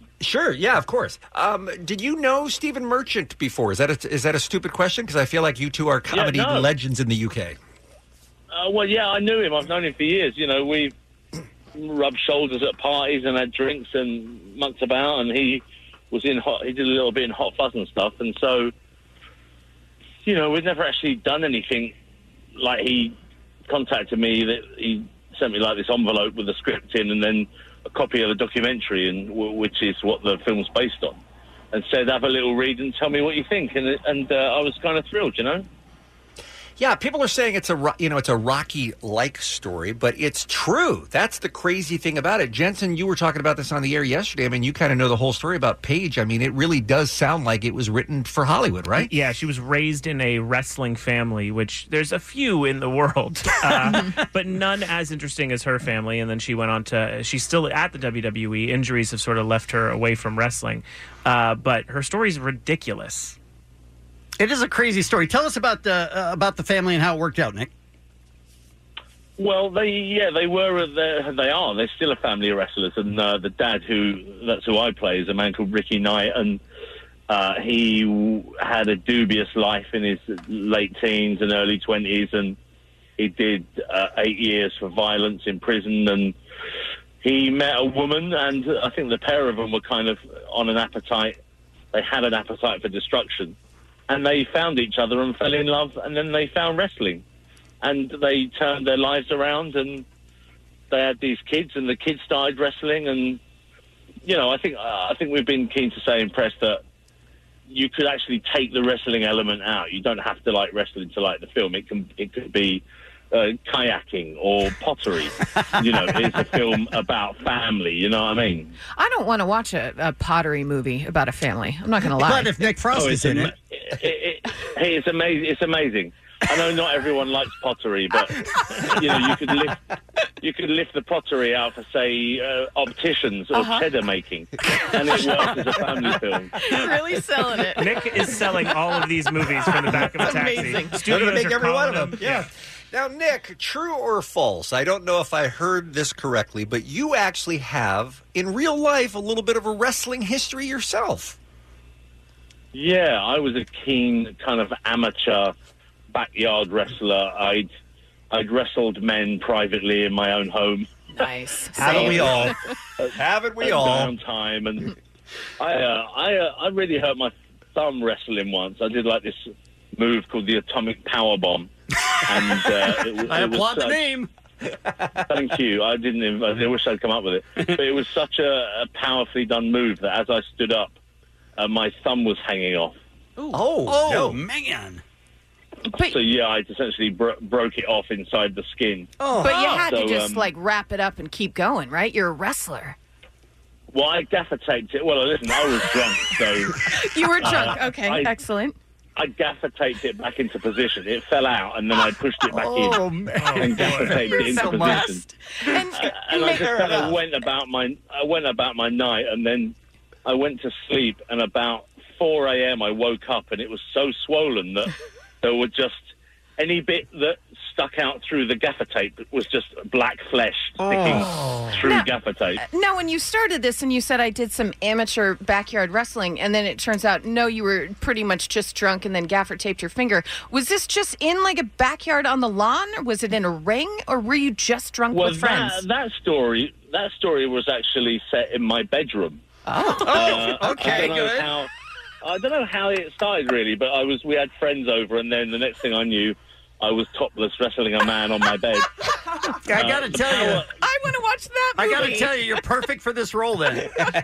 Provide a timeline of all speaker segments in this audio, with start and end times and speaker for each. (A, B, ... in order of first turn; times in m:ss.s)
0:00.2-0:07.6 A
0:06.1-0:06.7 B
0:08.5-0:10.9 B
0:11.7-0:18.7 B
0:20.2-0:21.9 B
0:22.6-0:23.1 B
0:23.7-0:31.2 B
0:31.7-0:35.6 B
0:36.8-0:49.1 A
0:49.0-1:03.4 C
1:04.4-1:07.7 D
1:09.4-1:16.6 B
1:17.3-1:22.6 B
1:23.2-1:26.4 B
1:27.2-1:31.4 B
1:31.9-1:33.6 B
1:34.1-1:37.2 B
1:37.8-1:40.0 B
1:40.9-1:43.4 B
1:44.2-1:46.8 B
1:47.7-1:58.7 B
1:58.9-2:02.5 E
2:02.2-2:03.5 D
2:02.9-2:09.8 B
2:10.4-2:16.5 B
2:13.5-2:13.9 E
2:16.6-2:17.9 E
2:17.8-2:22.4 C
2:19.7-2:21.0 E
2:21.0-2:31.4 A
2:32.7-2:35.5 B
2:36.1-2:37.7 B
2:38.3-2:40.9 B
2:41.1-2:42.6 E
2:41.7-2:42.6 A
2:41.8-2:44.9 B
2:43.1-2:44.1 A
2:45.6-2:49.4 B
2:50.0-2:51.7 B
2:52.2-2:54.2 B
2:52.4-2:54.3 D
2:55.3-3:01.0 B
3:01.6-3:03.0 B
3:03.5-3:04.4 A
3:03.5-3:05.0 D
3:05.9-3:06.2 E
3:06.0-3:10.5 B
3:09.2-3:09.8 D
3:09.4-3:13.0 E
3:13.9-3:16.8 B
3:16.8-3:18.8 E
3:17.4-3:18.4 B
3:19.2-3:23.0 B
3:22.5-3:25.1 D
3:23.4-3:24.2 C
3:23.6-3:25.2 B
3:24.2-3:26.9 E
3:25.9-3:42.6 B
3:26.4-3:27.1 A
3:40.8-3:41.8 D
3:41.8-3:55.8 E
3:55.1-3:59.4 B
3:59.7-4:00.3 E
3:59.8-4:01.4 D
4:00.0-4:01.7 B
4:00.8-4:01.1 A
4:02.2-4:08.9 B
4:09.6-4:10.7 D
4:09.7-4:10.7 B
4:10.8-4:12.6 E
4:11.8-4:14.0 D